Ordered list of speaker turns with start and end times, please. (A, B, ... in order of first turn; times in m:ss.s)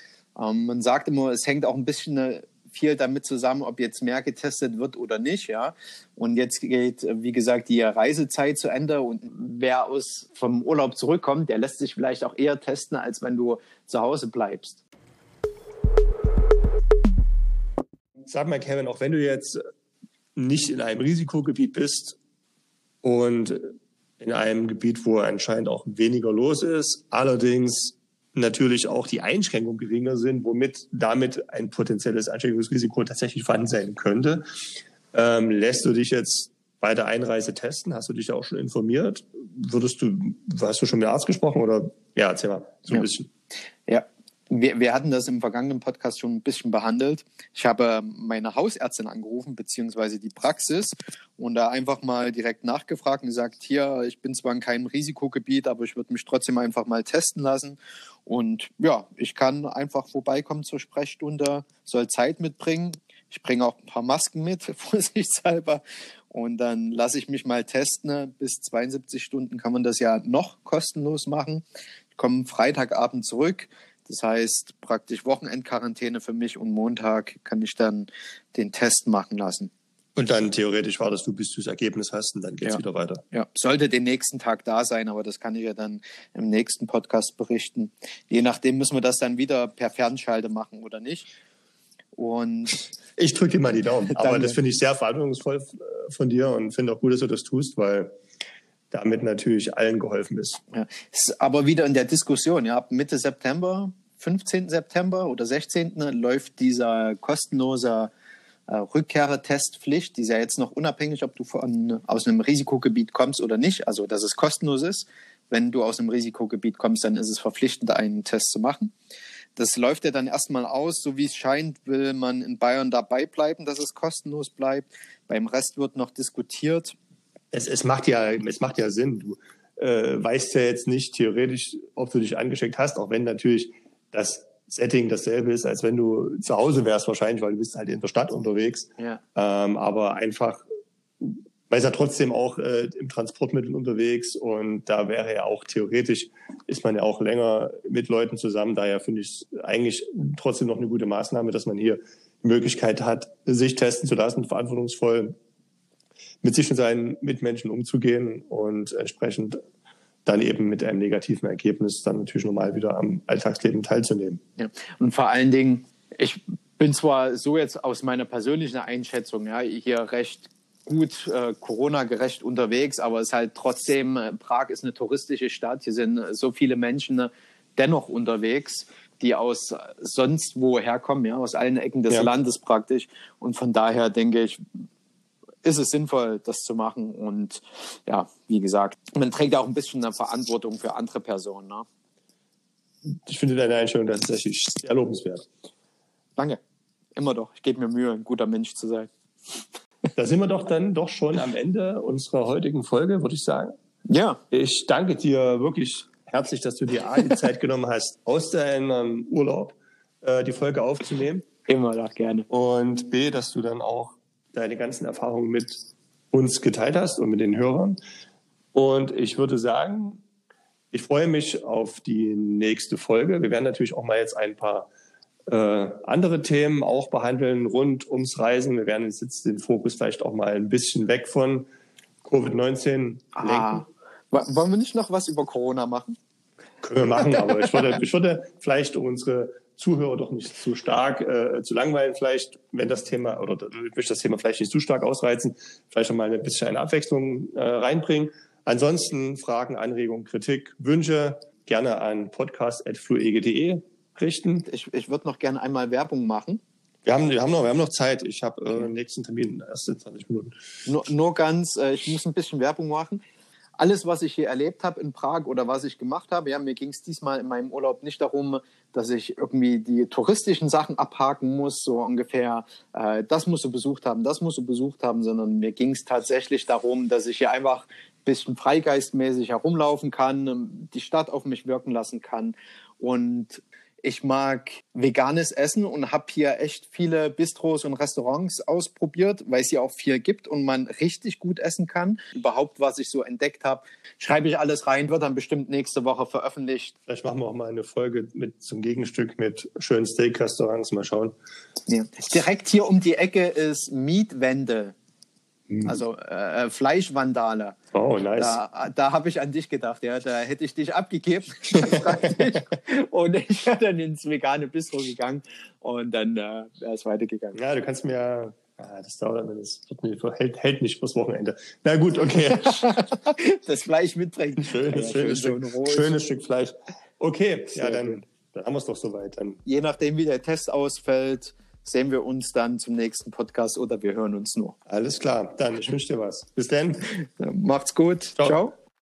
0:00.4-0:14.8 A
0:18.3-0:19.6 B
0:20.4-0:22.2 B
0:23.0-0:34.4 B
0:35.1-0:43.3 B
0:43.9-1:11.6 A
1:12.2-1:19.7 A
1:20.2-1:23.2 B
1:22.6-1:31.3 A
1:32.2-1:32.8 A
1:33.2-1:38.1 B
1:34.1-1:34.6 A
1:38.9-1:40.6 B
1:40.7-1:48.1 A
1:48.7-1:58.9 A
1:59.6-2:07.0 A
2:07.5-2:20.6 B
2:21.2-2:35.4 B
2:36.4-2:39.6 B
2:40.2-2:44.4 B
2:44.6-3:04.6 A
3:05.6-3:11.8 A
3:13.2-3:15.5 B
3:17.2-3:19.1 A
3:20.2-3:23.7 B
3:24.1-3:24.4 A
3:24.5-3:31.4 B
3:31.7-3:32.5 A
3:32.5-3:38.0 B
3:38.7-3:40.2 B
3:40.9-3:44.9 B
3:45.5-3:51.7 B
3:52.2-3:53.8 B
3:53.4-3:56.2 A
3:56.8-4:14.6 B
4:14.7-4:16.6 A
4:17.0-4:20.6 B
4:20.8-4:23.2 A
4:23.8-4:56.9 A
4:57.1-5:01.3 B
5:01.9-5:04.9 A
5:05.7-5:06.0 B
5:05.8-5:07.8 A
5:07.9-5:08.6 B
5:08.4-5:17.6 A
5:17.5-5:23.0 B
5:22.5-5:26.2 A
5:24.6-5:29.6 B
5:27.7-5:28.2 A
5:29.6-5:34.8 A
5:34.9-5:37.1 B
5:37.1-5:38.7 A